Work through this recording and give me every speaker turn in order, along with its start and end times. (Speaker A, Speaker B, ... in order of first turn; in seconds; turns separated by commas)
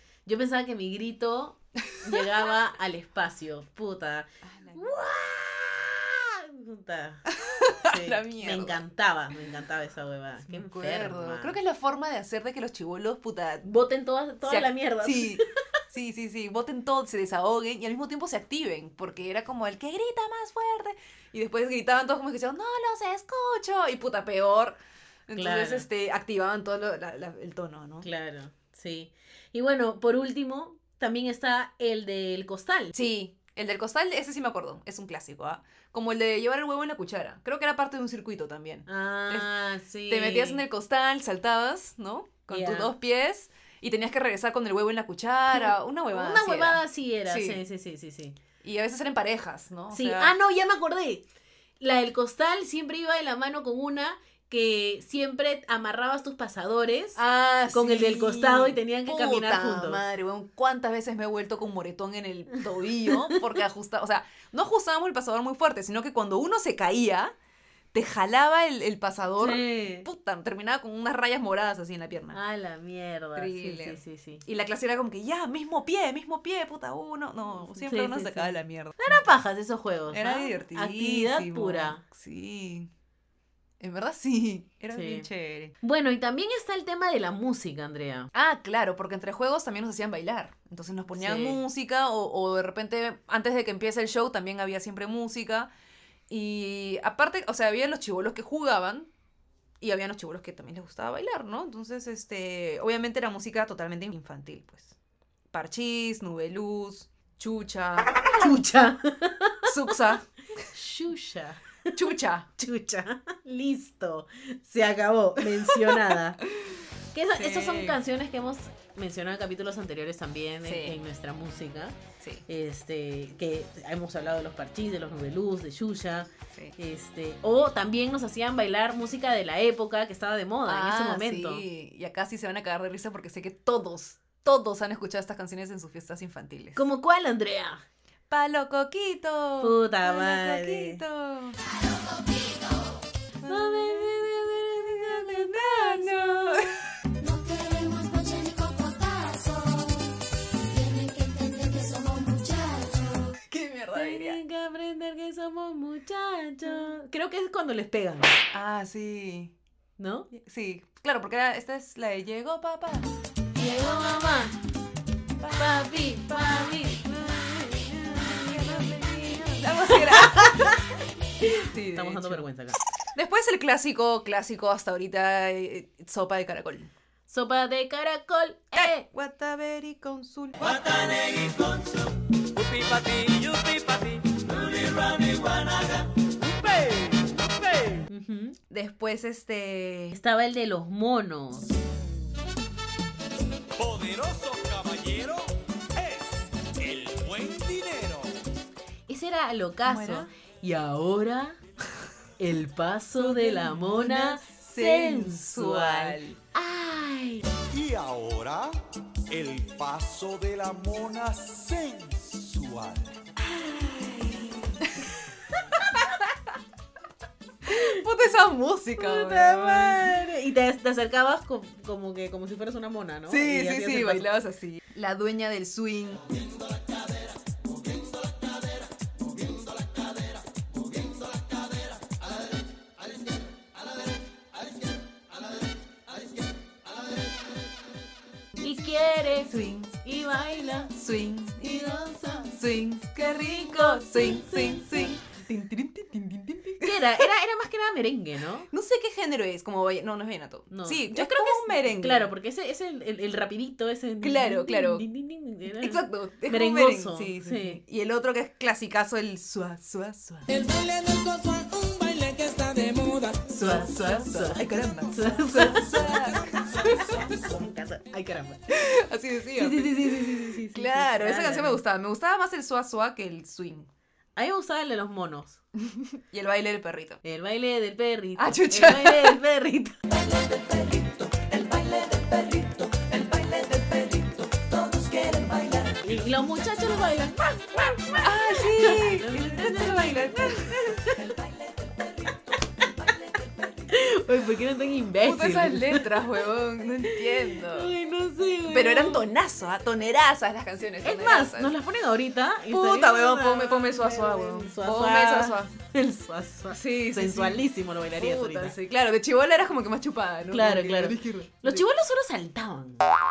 Speaker A: 0.3-7.3, Speaker B: 4.5-5.0, Speaker B: 7.3-8.8, Speaker A: 7.8-11.6, Speaker B: 10.5-13.7, Speaker A: 13.7-15.5, Speaker B: 14.4-28.1, Speaker A: 25.3-25.9, Speaker A: 28.0-32.9, Speaker B: 32.9-39.5, Speaker A: 38.9-40.6, Speaker B: 40.1-47.6, Speaker A: 42.5-42.9, Speaker A: 45.5-48.4, Speaker B: 48.6-50.4, Speaker A: 49.9-51.2, Speaker A: 51.8-57.2, Speaker B: 57.2-67.3, Speaker A: 57.7-60.0, Speaker A: 63.1-63.4, Speaker B: 67.9-72.4, Speaker A: 69.4-70.1, Speaker A: 72.3-74.4, Speaker B: 73.4-79.3, Speaker A: 77.6-82.0, Speaker B: 80.1-82.9, Speaker B: 83.8-85.7, Speaker A: 84.9-85.3, Speaker A: 85.8-88.3, Speaker B: 88.3-95.7, Speaker A: 91.2-91.6, Speaker B: 96.3-99.1, Speaker B: 99.8-105.0, Speaker B: 105.5-108.5, Speaker A: 108.2-110.1, Speaker B: 109.7-110.3, Speaker A: 110.6-116.4, Speaker B: 111.9-112.5, Speaker B: 115.5-116.8, Speaker A: 117.1-122.0, Speaker B: 117.3-118.0, Speaker B: 120.6-121.0, Speaker A: 122.5-131.7, Speaker B: 130.7-136.8, Speaker A: 136.8-137.8, Speaker B: 138.3-141.6, Speaker A: 139.6-141.0, Speaker B: 143.4-144.2, Speaker A: 143.4-146.7, Speaker B: 145.0-146.8, Speaker C: 147.2-150.1, Speaker C: 150.7-153.3, Speaker B: 153.3-154.4, Speaker A: 153.9-158.4, Speaker B: 158.5-159.5, Speaker A: 160.0-160.3, Speaker B: 160.3-163.1, Speaker A: 163.6-164.6, Speaker B: 165.4-166.6, Speaker A: 165.5-169.0, Speaker B: 168.2-170.8, Speaker A: 169.6-170.8, Speaker A: 171.4-172.8, Speaker B: 171.5-172.4, Speaker B: 173.2-176.9, Speaker A: 177.3-179.1, Speaker B: 178.7-180.9, Speaker D: 180.8-181.9, Speaker D: 182.5-188.1, Speaker A: 188.1-188.6, Speaker B: 188.7-190.2, Speaker A: 190.1-191.7, Speaker D: 193.8-198.3, Speaker A: 199.1-201.6, Speaker B: 199.9-200.3, Speaker A: 202.4-207.5, Speaker B: 203.2-206.4, Speaker D: 207.7-208.8, Speaker D: 209.3-213.2, Speaker B: 213.4-215.2, Speaker B: 215.7-216.3, Speaker B: 217.7-220.1, Speaker A: 219.0-224.3, Speaker B: 223.3-226.2, Speaker A: 238.6-240.9, Speaker B: 239.5-240.0, Speaker B: 240.9-241.9, Speaker A: 241.6-242.6, Speaker B: 242.5-247.3, Speaker A: 243.2-245.2, Speaker A: 246.8-248.7, Speaker B: 248.7-252.3, Speaker A: 250.7-257.8, Speaker B: 254.2-255.1, Speaker B: 255.8-260.5, Speaker E: 260.5-263.5, Speaker B: 263.5-267.4, Speaker A: 263.6-266.1, Speaker A: 267.1-268.6, Speaker B: 268.7-273.9, Speaker A: 269.6-271.8, Speaker A: 274.4-275.6, Speaker B: 275.8-277.2, Speaker A: 277.2-280.0, Speaker B: 278.4-279.4, Speaker B: 280.1-286.0, Speaker A: 286.0-291.3, Speaker B: 288.2-294.0, Speaker A: 293.9-296.2, Speaker B: 295.2-297.9, Speaker A: 297.1-299.3, Speaker B: 298.7-301.8, Speaker A: 301.0-308.8, Speaker B: 302.7-305.7, Speaker B: 306.7-311.9, Speaker A: 310.5-313.1